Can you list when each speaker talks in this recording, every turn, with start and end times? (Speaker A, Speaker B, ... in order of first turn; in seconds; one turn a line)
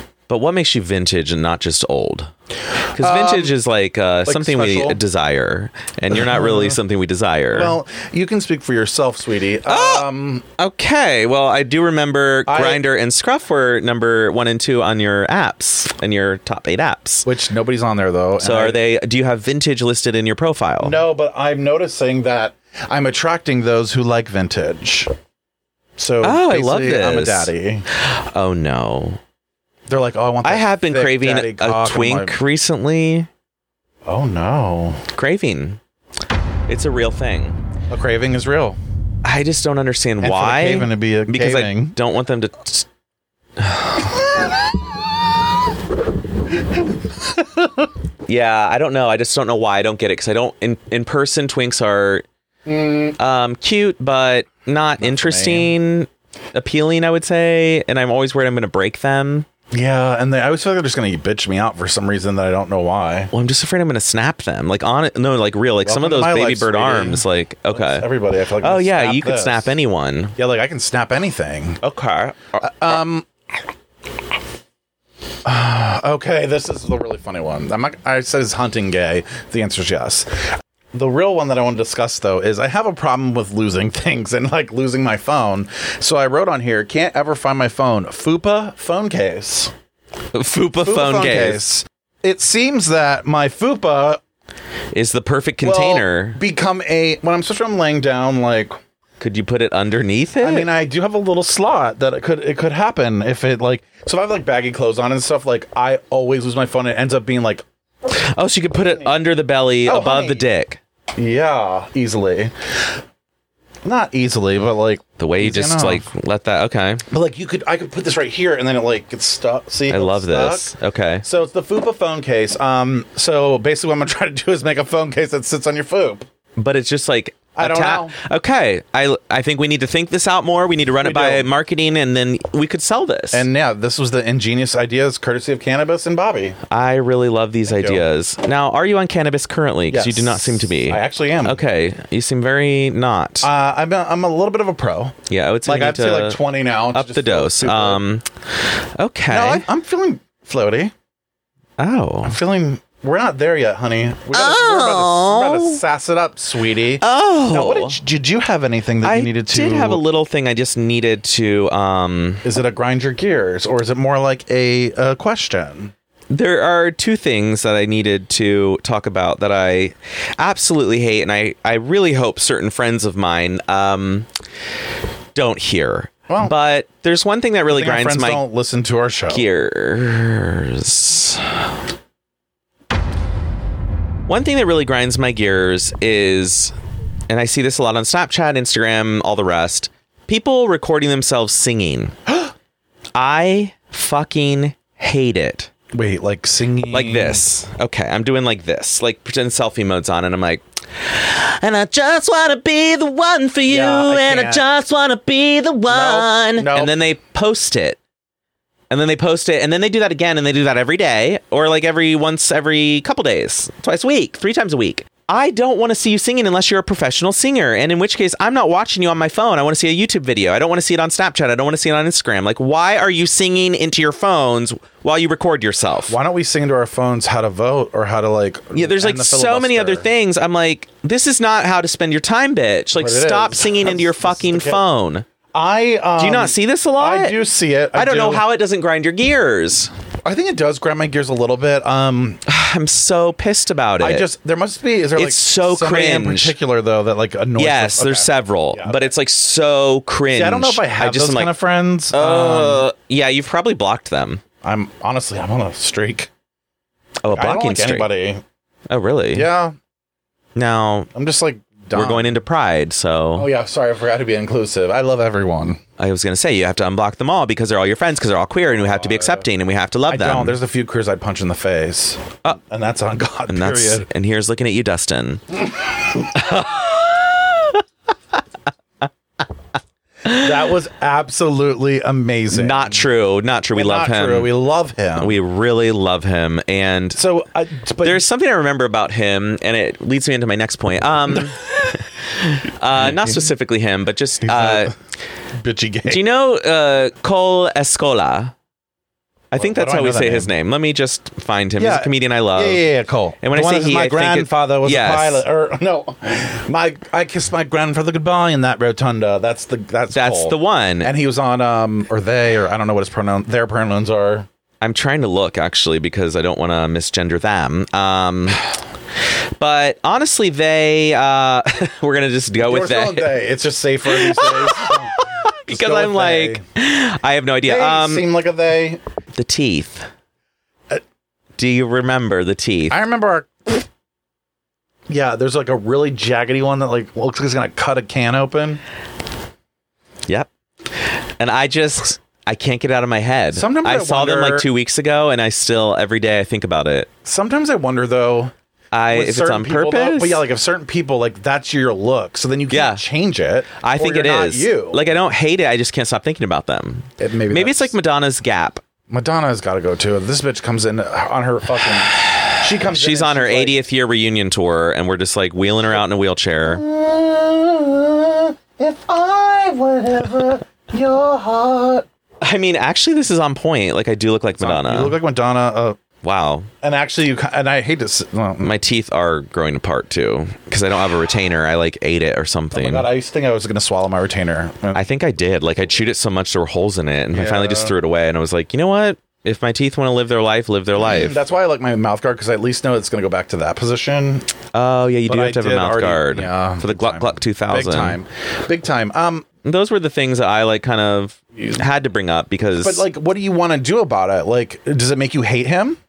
Speaker A: 0.3-2.3
Speaker B: 2.8-3.5
Speaker A: 2.9-7.8
Speaker B: 4.2-5.0
Speaker B: 6.1-6.8
Speaker B: 7.5-10.4
Speaker A: 9.6-17.2
Speaker B: 12.5-12.8
Speaker B: 17.2-18.8
Speaker A: 18.4-20.9
Speaker B: 20.8-25.1
Speaker B: 26.0-27.8
Speaker A: 26.2-29.2
Speaker B: 29.9-32.4
Speaker A: 30.4-33.3
Speaker B: 34.0-35.0
Speaker A: 35.1-35.8
Speaker A: 36.7-37.5
Speaker B: 37.9-38.8
Speaker A: 39.2-42.9
Speaker B: 40.2-42.0
Speaker A: 43.6-44.2
Speaker B: 47.2-47.9
Speaker A: 48.3-52.2
Speaker B: 52.7-53.2
Speaker A: 53.2-59.5
Speaker B: 55.0-55.7
Speaker B: 59.7-63.3
Speaker A: 63.3-68.0
Speaker B: 65.8-69.7
Speaker A: 68.6-70.3
Speaker B: 70.4-71.8
Speaker A: 71.8-73.0
Speaker B: 72.6-73.3
Speaker B: 75.4-89.7
Speaker A: 90.3-91.6
Speaker B: 90.8-94.2
Speaker A: 94.9-96.4
Speaker B: 95.6-98.8
Speaker A: 99.2-100.7
Speaker B: 100.4-107.6
Speaker A: 108.1-110.8
Speaker B: 108.8-109.1
Speaker B: 109.8-110.5
Speaker B: 111.2-112.5
Speaker B: 113.8-116.1
Speaker A: 115.2-117.0
Speaker B: 117.1-120.7
Speaker A: 119.9-121.2
Speaker B: 121.2-126.2
Speaker A: 126.6-133.4
Speaker B: 127.5-128.1
Speaker B: 131.0-131.5
Speaker B: 133.3-136.6
Speaker A: 136.7-143.5
Speaker B: 137.7-138.0
Speaker B: 139.9-141.6
Speaker B: 143.4-148.0
Speaker A: 145.3-146.4
Speaker A: 146.9-149.7
Speaker B: 149.3-150.9
Speaker A: 151.8-152.4
Speaker B: 152.2-160.0
Speaker A: 154.3-155.8
Speaker A: 157.0-158.0
Speaker A: 159.0-162.4
Speaker B: 162.4-165.9
Speaker A: 166.3-174.3
Speaker A: 175.3-178.4
Speaker B: 176.3-176.5
Speaker B: 177.7-179.4
Speaker A: 179.3-181.7
Speaker A: 184.3-186.7
Speaker A: 187.3-192.1
Speaker A: 193.2-195.7
Speaker B: 195.9-197.4
Speaker A: 196.9-208.0
Speaker B: 203.7-204.6
Speaker B: 205.9-206.9
Speaker A: 208.9-226.2
Speaker B: 226.1-230.1
Speaker A: 228.7-235.2
Speaker B: 232.9-234.8
Speaker B: 235.5-238.4
Speaker A: 236.2-237.3
Speaker A: 237.9-239.9
Speaker B: 240.2-242.4
Speaker A: 242.5-244.3
Speaker B: 244.0-249.1
Speaker A: 245.2-246.5
Speaker A: 247.6-251.5
Speaker B: 250.3-252.8
Speaker A: 252.1-254.4
Speaker B: 254.6-256.3
Speaker A: 257.2-258.1
Speaker B: 257.3-258.4
Speaker A: 258.9-259.5
Speaker B: 259.3-259.7
Speaker A: 260.5-261.1
Speaker B: 261.1-262.3
Speaker A: 261.9-263.5
Speaker B: 263.4-265.8
Speaker A: 266.0-270.6
Speaker B: 268.7-269.4
Speaker B: 270.1-274.1
Speaker A: 273.5-275.6
Speaker A: 276.3-277.8
Speaker B: 280.2-283.0
Speaker A: 282.5-284.5
Speaker B: 283.7-285.4
Speaker A: 285.2-287.2
Speaker B: 287.1-288.2
Speaker A: 288.0-294.9
Speaker B: 292.9-293.4
Speaker B: 294.4-294.9
Speaker B: 295.6-296.2
Speaker A: 296.1-298.5
Speaker A: 299.5-302.8
Speaker B: 299.6-300.5
Speaker B: 301.8-314.5
Speaker A: 303.4-305.4
Speaker A: 310.1-311.1
Speaker A: 314.8-318.6
Speaker A: 319.6-323.3
Speaker B: 322.6-326.6
Speaker A: 324.1-328.2
Speaker B: 327.6-329.0
Speaker A: 329.3-330.1
Speaker A: 331.6-332.9
Speaker B: 332.9-333.8
Speaker B: 335.1-338.8
Speaker A: 341.0-347.1
Speaker B: 343.5-344.7
Speaker B: 347.2-348.5
Speaker A: 348.9-350.4
Speaker B: 349.1-355.1
Speaker A: 352.7-353.0
Speaker A: 353.8-358.8
Speaker B: 357.2-357.9
Speaker B: 359.1-363.8
Speaker A: 362.1-366.8
Speaker B: 366.6-372.1
Speaker A: 372.4-375.2
Speaker B: 374.6-376.0
Speaker A: 376.2-376.7
Speaker B: 376.8-378.7
Speaker A: 378.6-383.1
Speaker B: 382.7-385.0
Speaker A: 384.9-391.4
Speaker B: 387.3-387.9
Speaker B: 390.9-394.5
Speaker A: 394.7-398.2
Speaker B: 395.3-399.4
Speaker A: 399.6-403.1
Speaker B: 401.6-401.8
Speaker B: 402.8-406.0